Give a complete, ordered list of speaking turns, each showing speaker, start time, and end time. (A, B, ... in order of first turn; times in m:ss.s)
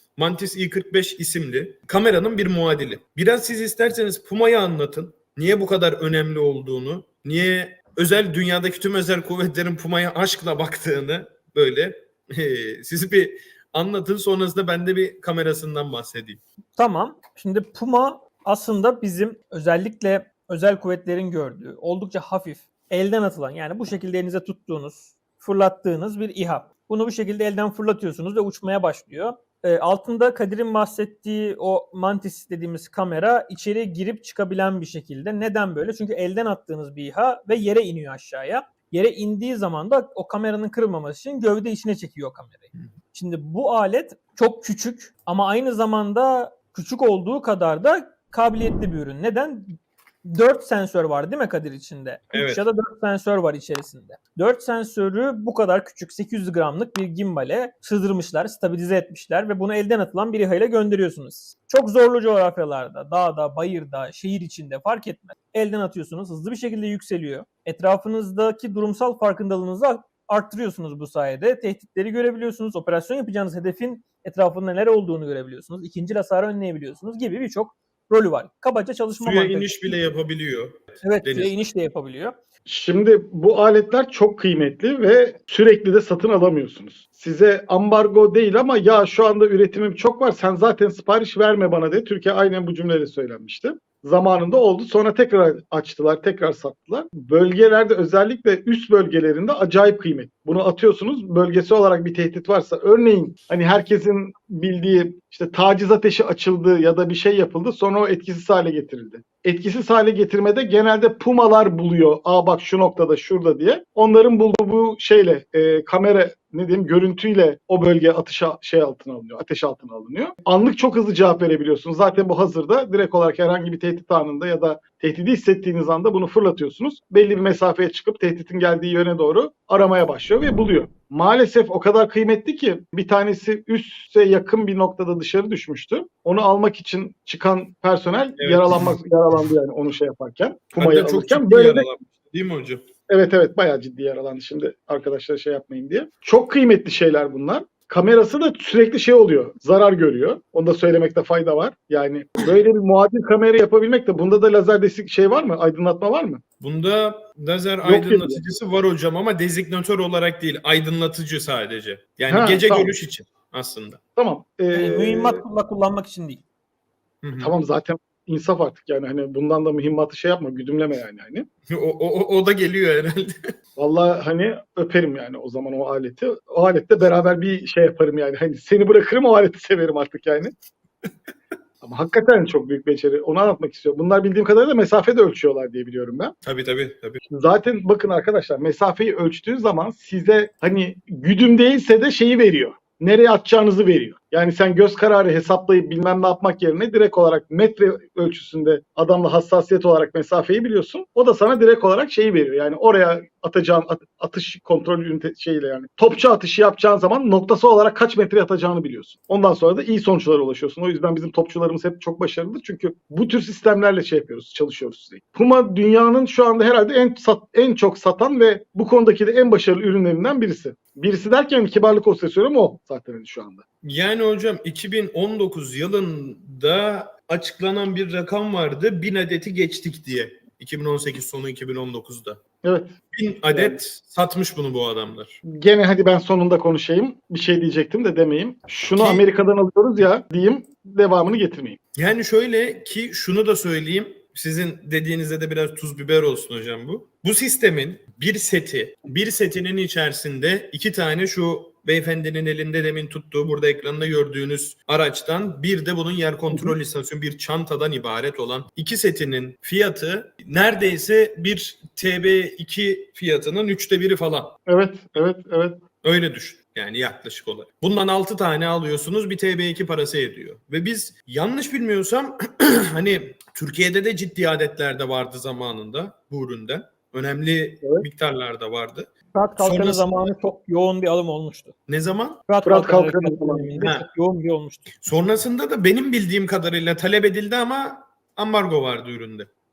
0:00.2-0:16.4 A
0:16.8-1:20.0 B
0:52.3-0:52.6 A
1:19.2-1:21.6 A
1:21.0-1:22.4 B
1:22.7-2:21.9 C
2:18.4-2:19.0 A
2:20.8-2:22.9 A
2:23.1-2:36.4 C
2:36.6-2:44.0 A
2:37.8-2:38.4 C
2:42.3-2:42.9 C
2:44.2-2:45.4 C
2:44.7-2:46.4 B
2:47.2-2:47.5 A
2:47.4-2:51.5 C
2:51.7-2:53.3 A
2:53.8-3:00.5 C
3:01.8-3:06.3 C
3:06.4-3:07.2 A
3:07.3-3:43.6 C
3:43.8-3:52.4 A
3:52.6-3:52.9 C
3:53.1-3:55.4 A
3:53.5-3:53.8 C
3:55.4-4:01.8 C
3:59.0-3:59.3 A
4:02.0-4:24.6 A
4:24.7-4:25.8 C
4:26.0-4:40.2 A
4:39.3-4:41.7 B
4:41.9-4:42.4 A
4:42.5-4:44.9 B
4:42.6-4:43.7 C
4:43.8-4:44.1 A
4:45.0-4:49.5 A